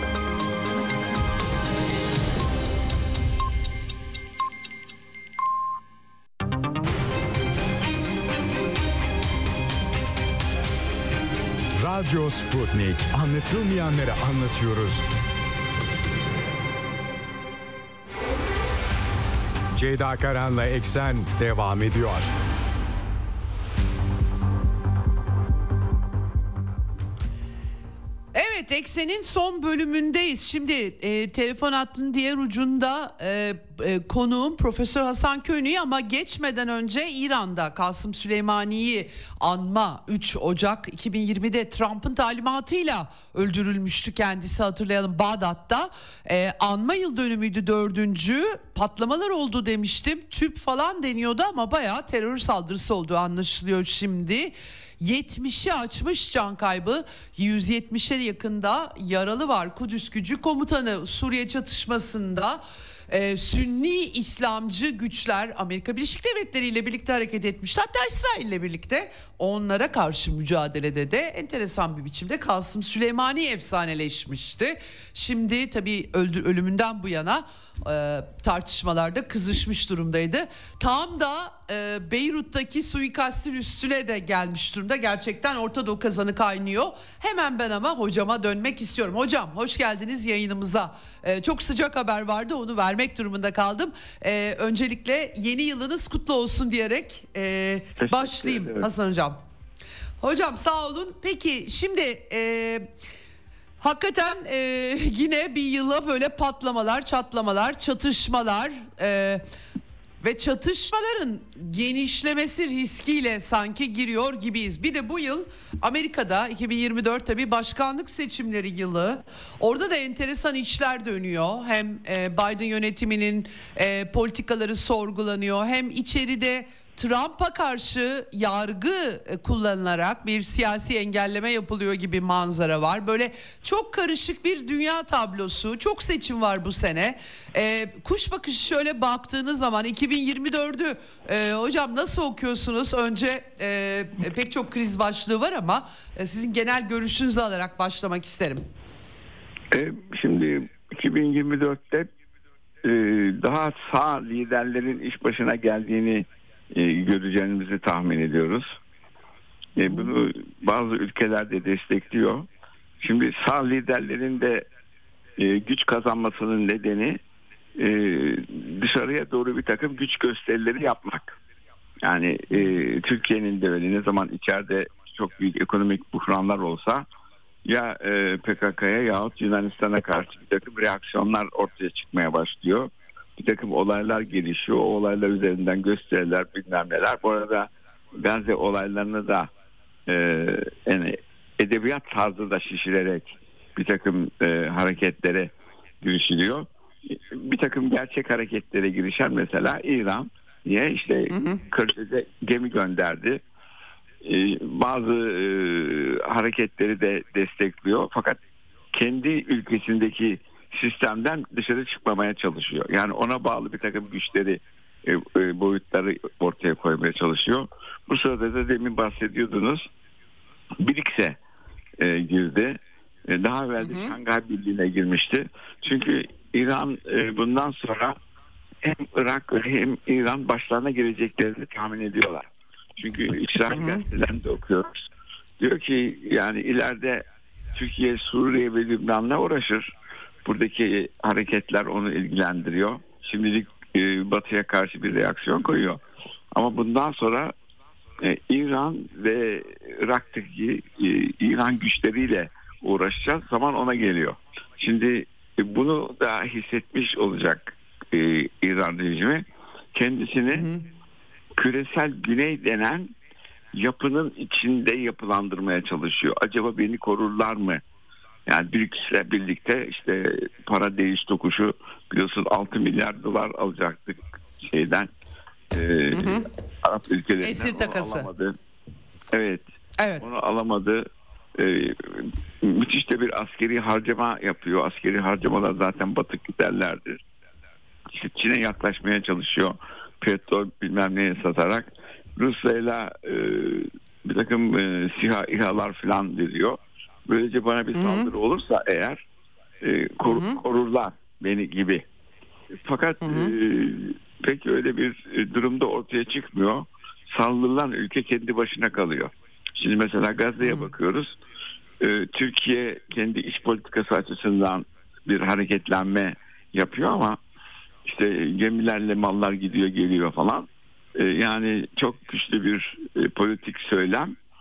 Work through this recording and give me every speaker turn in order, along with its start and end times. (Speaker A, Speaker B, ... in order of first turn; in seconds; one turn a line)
Speaker A: 11.8-15.1
Speaker A: 19.7-22.3
Speaker B: 28.3-99.4
Speaker C: 98.0-98.8
Speaker B: 100.2-102.9
Speaker B: 103.8-109.4
Speaker B: 110.2-148.6
Speaker C: 149.7-152.1
Speaker C: 152.8-158.7
Speaker C: 159.8-162.4
Speaker B: 159.8-160.1
Speaker C: 163.0-164.7
Speaker C: 165.4-167.2
Speaker C: 167.8-171.4
Speaker C: 172.0-177.0
Speaker C: 177.6-189.5
Speaker C: 190.1-203.4
Speaker B: 201.3-201.6
Speaker C: 204.2-208.4
Speaker C: 208.9-219.9
Speaker C: 220.8-221.4
Speaker C: 222.0-228.2
Speaker B: 223.8-224.1
Speaker C: 228.8-235.0
Speaker B: 233.7-234.0
Speaker C: 235.6-239.9
Speaker C: 240.4-246.0
Speaker C: 246.5-247.5
Speaker C: 248.2-260.7
Speaker B: 260.5-260.8
Speaker C: 261.6-263.1
Speaker C: 263.7-267.8
Speaker C: 268.5-275.1
Speaker C: 275.7-278.5
Speaker B: 276.1-276.5
Speaker B: 277.4-278.3
Speaker C: 279.3-279.6
Speaker B: 280.0-280.2
Speaker C: 280.2-287.2
Speaker C: 288.1-299.2
Speaker B: 297.9-298.3
Speaker C: 299.8-302.0
Speaker B: 300.2-300.6
Speaker C: 302.8-311.3
Speaker B: 303.2-303.5
Speaker B: 310.6-310.9
Speaker C: 312.0-317.4
Speaker C: 318.0-324.4